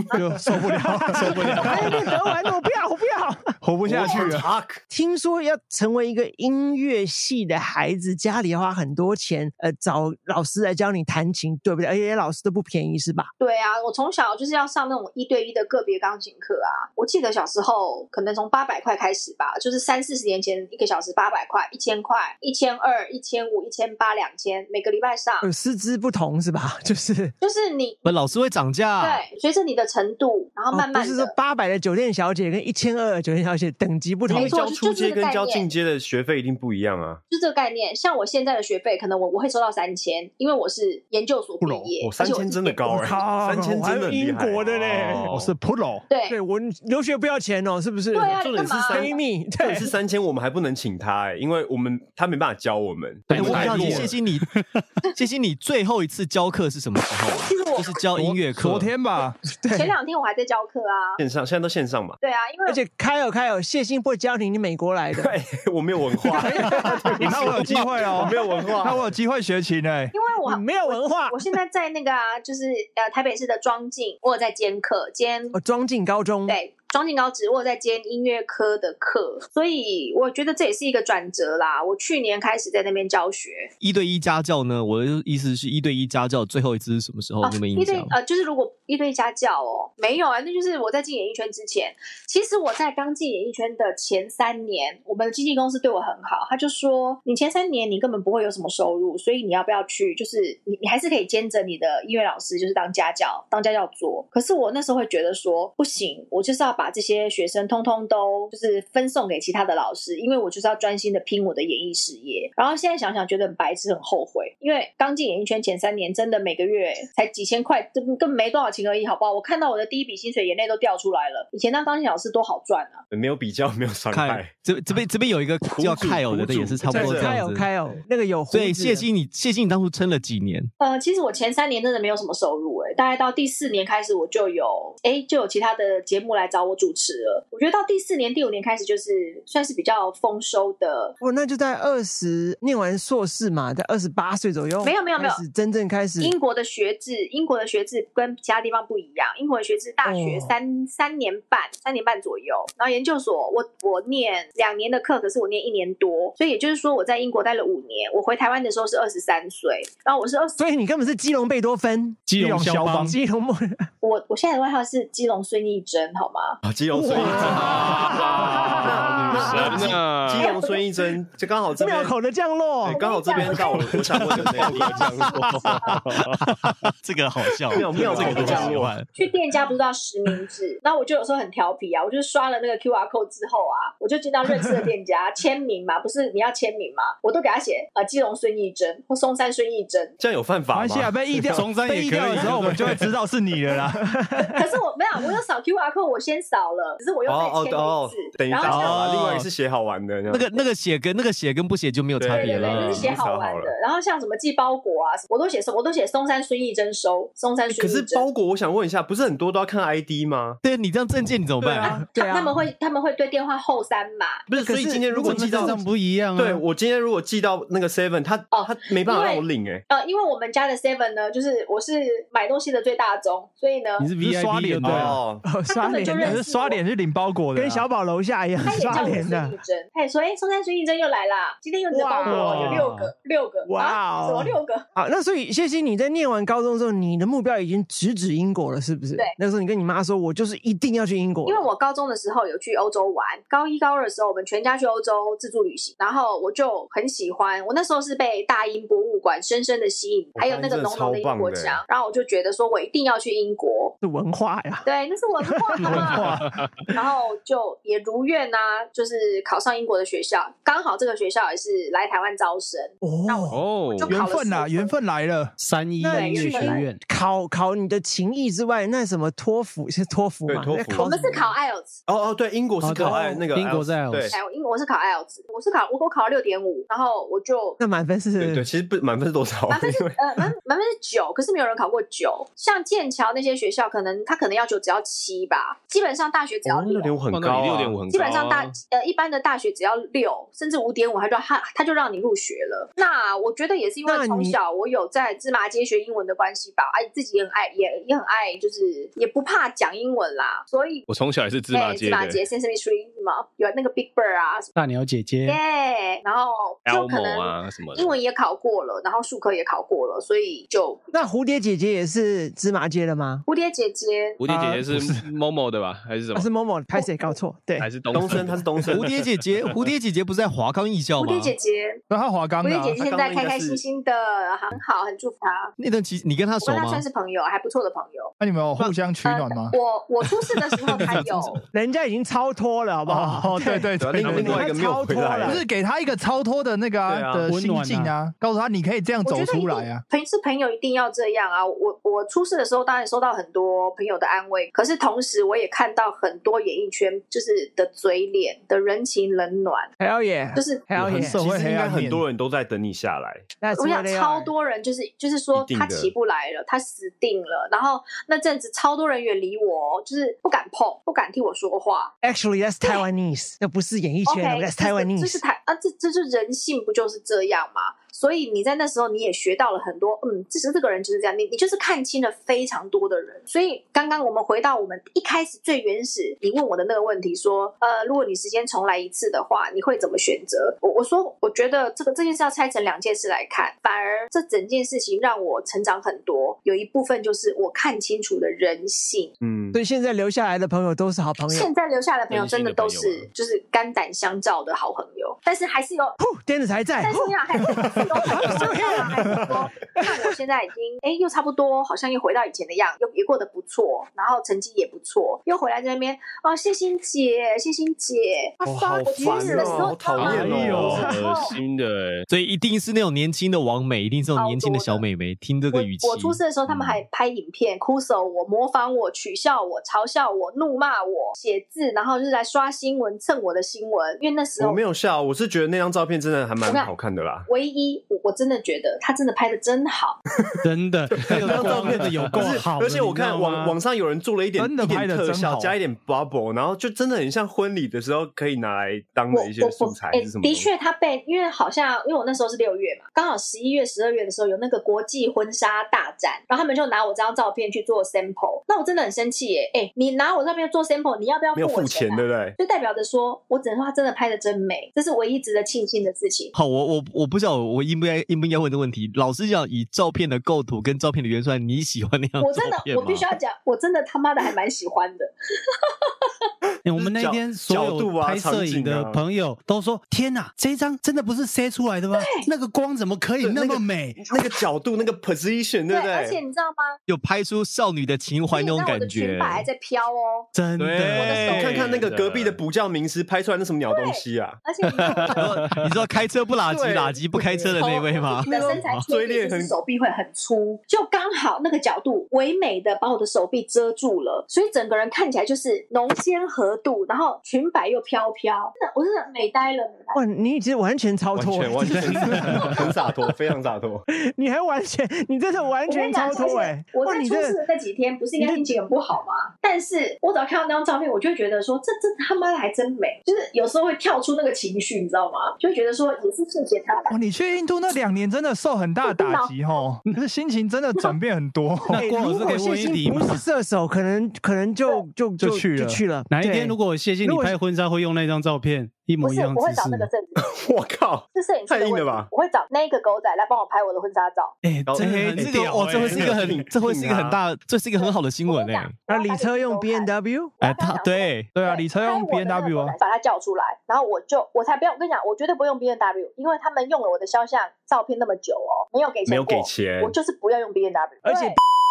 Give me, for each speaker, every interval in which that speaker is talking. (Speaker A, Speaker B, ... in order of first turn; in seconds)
Speaker A: 0.1-2.0, 3.6-4.5, 41.6-41.9, 45.3-46.0, 53.3-54.2, 58.1-59.4, 66.8-70.1, 162.3-163.1, 190.7-194.1, 215.3-215.7, 224.2-225.2, 226.2-227.8, 264.0-265.5, 314.5-315.2, 322.1-323.0, 328.4-329.8, 330.4-331.5, 333.1-334.7, 335.4-340.0, 351.1-352.2, 410.3-411.1, 434.6-435.8, 517.1-522.0, 541.5-543.0
Speaker B: 0.4-4.3, 4.9-13.3, 25.4-27.3, 30.7-34.6, 42.9-45.5, 46.3-49.9, 59.6-59.9, 62.6-65.3, 66.2-68.3, 70.4-71.4, 75.5-76.6, 126.9-129.1, 141.2-146.4, 150.0-150.6, 160.6-162.3, 162.8-163.9, 166.9-169.5, 171.8-173.5, 194.0-194.6, 211.8-212.6, 214.5-215.8, 225.4-226.4, 227.5-229.6, 231.9-232.9, 233.7-241.7, 254.0-254.8, 255.4-256.4, 263.0-263.6, 266.0-271.5, 277.8-278.6, 294.0-294.6, 311.1-313.4, 316.3-317.9, 331.7-335.6, 350.0-351.4, 353.6-354.5, 362.2-365.4, 389.7-391.7, 396.2-400.2, 408.6-410.2, 410.8-411.2, 500.1-502.9, 504.2-507.6, 508.4-508.7, 521.9-527.6, 539.1-540.6, 551.2-551.6
Speaker C: 1.3-1.7, 53.3-54.1, 167.1-170.5, 174.3-176.4, 263.5-264.2, 287.3-288.7, 301.1-302.4, 306.9-308.1, 314.4-316.5, 317.8-319.9, 392.3-393.3, 410.1-412.3, 481.8-482.6, 485.1-485.9
Speaker D: 3.8-4.8, 34.3-37.2, 42.0-45.5, 48.4-54.1, 61.2-62.2, 65.2-69.1, 123.1-124.5, 125.6-127.3, 166.6-168.1, 168.7-172.2, 172.8-175.4, 177.7-179.0, 190.2-191.7, 192.4-192.8, 197.3-200.6, 202.2-203.7, 207.7-210.6, 211.6-211.9, 214.5-215.8, 216.3-219.8, 224.8-225.4, 250.3-251.8, 270.5-271.1, 272.1-274.4, 278.4-280.1, 286.6-288.0, 318.1-319.1, 322.9-323.8, 334.0-335.6, 337.0-337.5, 350.9-353.5, 355.5-356.1, 389.4-389.8, 408.6-411.1, 424.6-427.5, 431.2-440.7, 451.5-452.6, 466.9-469.2, 473.4-476.4, 481.5-484.6, 486.7-487.8, 488.5-489.7, 501.3-504.0, 530.4-532.3, 534.9-537.4, 549.3-550.1
Speaker E: 13.4-25.5, 27.4-28.0, 29.0-31.3, 34.3-35.7, 37.3-42.8, 46.1-46.4, 48.1-49.2, 57.3-57.9, 59.7-61.2, 62.2-62.8, 66.8-67.1, 70.1-75.5, 76.5-83.7, 87.4-123.0, 130.8-141.1, 144.8-145.4, 146.2-160.6, 164.0-166.6, 170.3-170.8, 172.8-176.0, 177.9-190.1, 194.4-199.0, 202.3-208.2, 211.8-214.5, 218.5-224.1, 225.7-226.8, 228.6-234.8, 241.4-253.9, 254.8-256.3, 256.9-264.9, 266.1-266.9, 270.9-272.0, 274.3-277.8, 279.7-287.1, 288.1-301.1, 301.7-304.7, 305.4-311.1, 313.5-314.4, 321.2-322.0, 322.6-325.7, 326.6-328.3, 329.2-331.6, 339.2-349.9, 350.5-350.8, 353.7-362.1, 364.2-389.3, 391.5-396.2, 397.0-411.6, 414.3-415.0, 415.7-424.8, 426.6-426.9, 427.5-430.2, 439.3-456.5, 462.4-465.3, 465.9-466.3, 472.1-472.4, 475.9-477.0, 478.5-480.5, 481.1-481.9, 483.9-485.5, 487.8-500.2, 505.9-517.2, 519.0-519.5, 529.2-530.5, 531.3-534.5, 538.0-551.6
Speaker F: 28.0-29.2, 53.3-54.5, 55.1-58.9, 83.8-88.1, 124.1-127.7, 128.5-130.7, 174.3-174.8, 177.0-179.1, 198.6-199.5, 200.3-203.2, 210.6-211.9, 318.9-321.5, 325.8-327.0, 412.3-416.4, 431.4-432.6, 456.5-463.3, 477.1-479.6, 480.8-482.0, 485.3-489.0, 535.0-539.0, 540.6-541.5
Speaker G: 162.3-163.1, 191.5-193.1, 215.2-216.6, 224.0-225.2, 232.2-233.1, 265.6-267.0, 272.8-274.3, 304.8-305.6, 337.5-338.1, 430.6-433.8, 466.8-474.3, 480.5-481.8, 521.9-523.4, 525.4-530.1, 534.6-536.6